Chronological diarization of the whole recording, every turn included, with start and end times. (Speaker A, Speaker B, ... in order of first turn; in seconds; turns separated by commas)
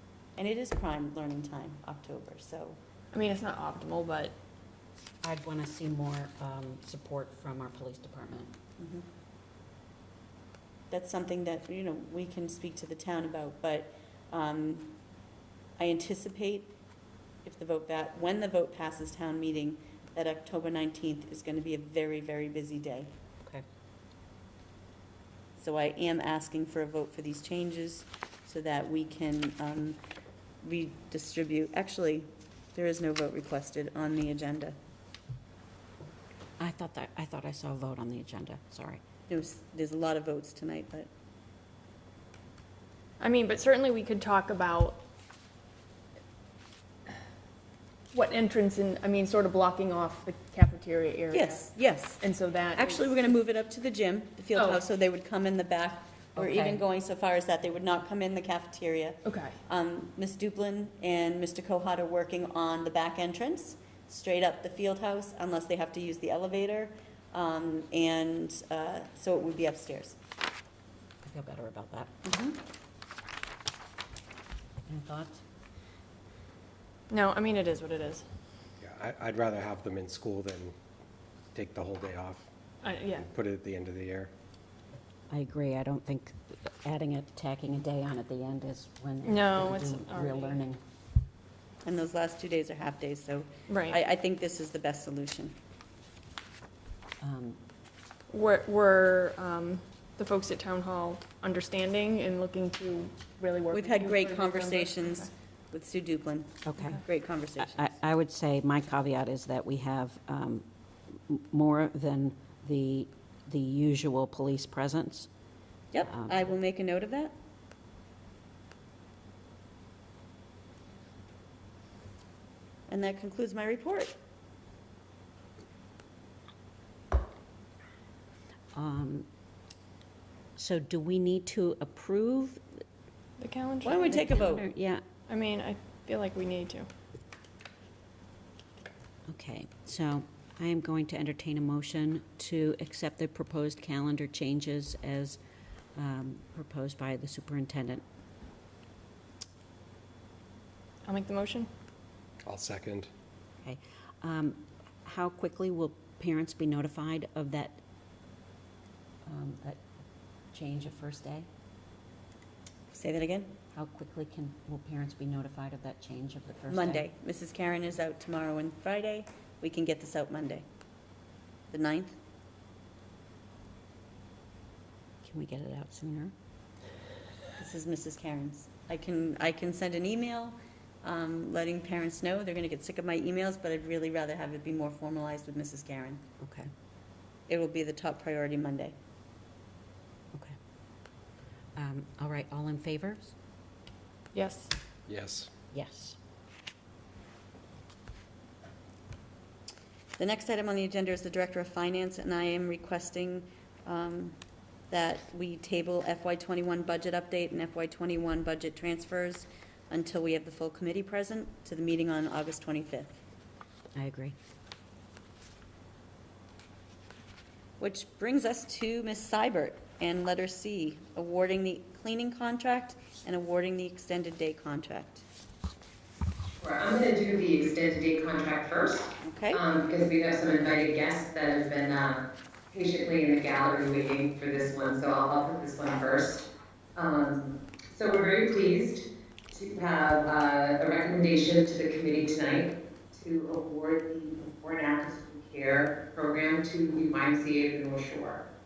Speaker A: 0.4-2.8, Speaker B: 3.1-4.3, Speaker C: 5.2-8.5, Speaker A: 8.8-9.1, Speaker A: 10.9-14.9, Speaker A: 15.8-16.7, Speaker A: 17.4-23.1, Speaker A: 25.6-30.0, Speaker A: 30.6-34.8, Speaker C: 36.6-39.0, Speaker A: 39.3-41.1, Speaker B: 43.2-45.0, Speaker B: 48.1-53.1, Speaker A: 51.3-52.2, Speaker A: 52.7-70.2, Speaker C: 56.4-56.8, Speaker B: 59.2-59.5, Speaker C: 71.2-72.2, Speaker A: 72.2-72.6, Speaker C: 74.9-75.4, Speaker B: 77.1-78.2, Speaker D: 78.8-80.8, Speaker D: 81.5-82.5, Speaker B: 82.8-83.3, Speaker D: 83.2-84.3, Speaker C: 85.3-90.8, Speaker B: 89.2-90.6, Speaker A: 91.8-95.5, Speaker B: 93.7-94.0, Speaker C: 97.2-97.6, Speaker B: 98.3-105.3, Speaker A: 103.7-108.0, Speaker C: 106.7-107.0, Speaker C: 107.6-115.3, Speaker A: 115.9-117.3, Speaker C: 116.0-116.5, Speaker A: 122.9-124.1, Speaker C: 128.7-129.3, Speaker C: 130.6-132.6, Speaker B: 133.4-134.2, Speaker A: 133.8-134.7, Speaker C: 134.1-135.0, Speaker B: 135.3-136.9, Speaker C: 139.3-145.4, Speaker C: 145.9-148.0, Speaker B: 151.0-151.7, Speaker D: 152.4-153.1, Speaker C: 153.6-157.8, Speaker C: 159.2-159.8, Speaker C: 160.5-161.5, Speaker A: 162.9-163.6, Speaker C: 163.7-167.0, Speaker A: 166.7-170.6, Speaker A: 171.7-172.2, Speaker C: 175.2-176.3, Speaker A: 177.6-186.2, Speaker C: 186.4-186.7, Speaker A: 187.5-188.9, Speaker C: 191.8-193.3, Speaker B: 194.3-194.7, Speaker D: 195.1-195.5, Speaker C: 195.7-196.2, Speaker A: 200.2-204.3, Speaker A: 204.9-213.2, Speaker C: 213.9-214.3, Speaker A: 217.8-225.2, Speaker E: 226.6-248.4, Speaker A: 229.2-229.6